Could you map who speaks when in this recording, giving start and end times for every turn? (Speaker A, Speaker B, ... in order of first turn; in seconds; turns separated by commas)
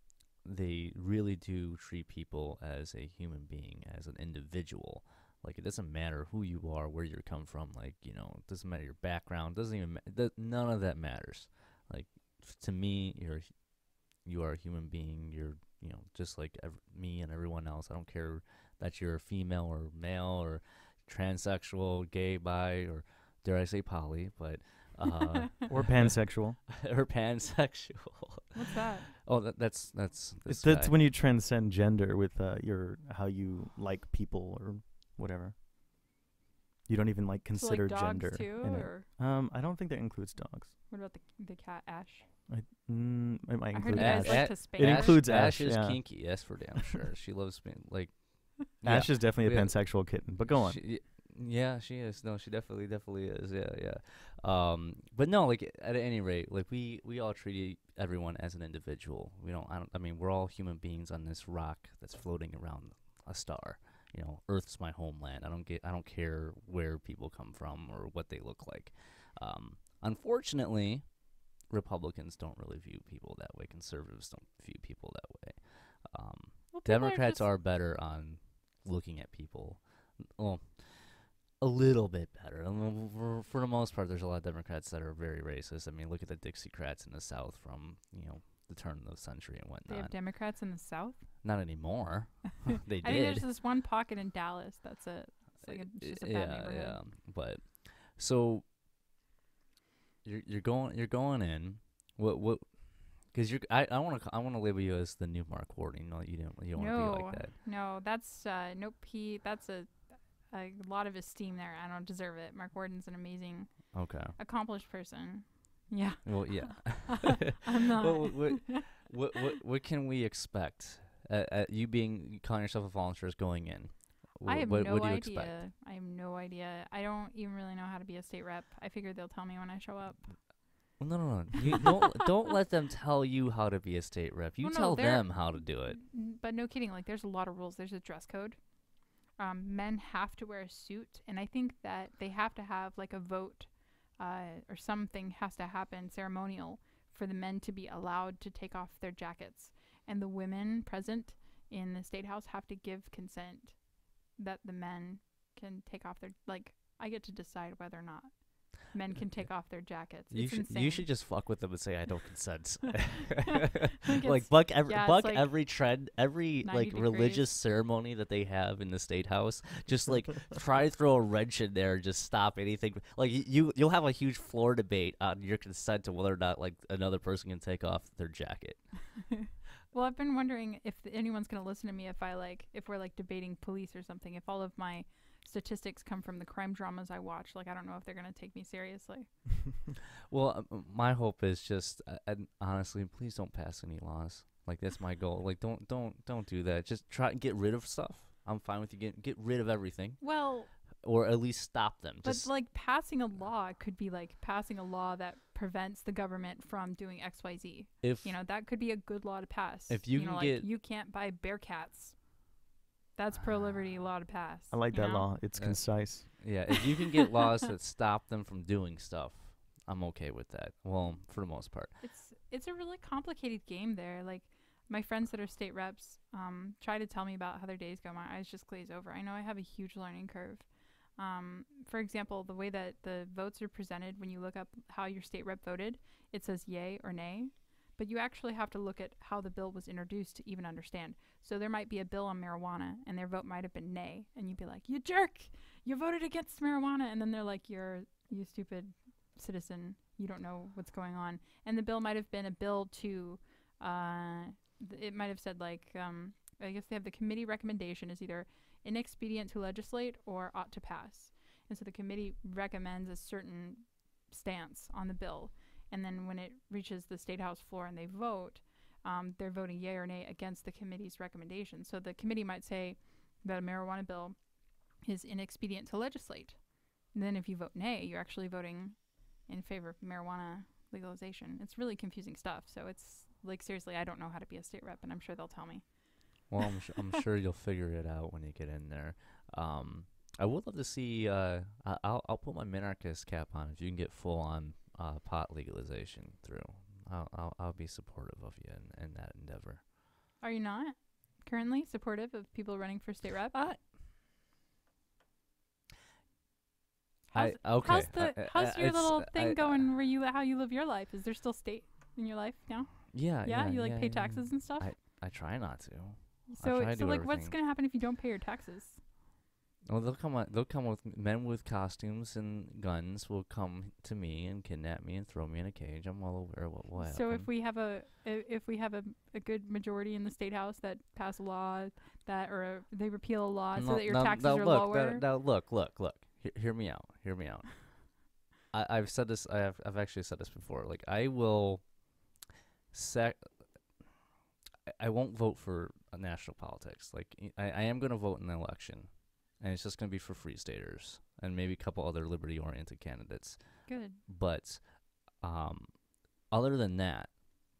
Speaker A: 0.4-31.0, Speaker B: 25.7-26.6, Speaker C: 28.5-29.1, Speaker B: 30.4-35.5, Speaker B: 36.9-40.7, Speaker C: 37.5-39.1, Speaker C: 40.9-42.3, Speaker B: 42.5-46.6, Speaker C: 43.7-45.3, Speaker A: 43.9-90.2, Speaker B: 48.8-50.9, Speaker C: 76.7-77.5, Speaker C: 89.9-91.7, Speaker A: 91.4-93.5, Speaker C: 93.0-97.0, Speaker A: 95.6-98.7, Speaker A: 100.2-107.5, Speaker C: 106.7-118.8, Speaker A: 113.9-114.4, Speaker A: 116.2-125.6, Speaker C: 124.4-131.0, Speaker A: 131.0-136.0, Speaker C: 134.6-161.2, Speaker A: 159.4-179.4, Speaker C: 164.1-167.5, Speaker C: 179.3-189.5, Speaker A: 190.3-202.6, Speaker C: 200.2-200.7, Speaker C: 202.2-212.4, Speaker A: 208.0-208.3, Speaker A: 209.9-210.7, Speaker C: 213.2-215.3, Speaker B: 214.7-216.3, Speaker A: 215.5-222.0, Speaker C: 222.0-286.5, Speaker A: 286.5-299.9, Speaker C: 300.4-303.6, Speaker A: 303.5-303.8, Speaker C: 307.3-314.9, Speaker A: 307.3-309.9, Speaker A: 313.1-317.6, Speaker C: 316.5-319.0, Speaker A: 319.9-327.5, Speaker C: 327.0-335.2, Speaker A: 333.7-338.2, Speaker A: 338.7-342.1, Speaker A: 342.9-344.0, Speaker A: 344.9-357.3, Speaker C: 353.9-354.2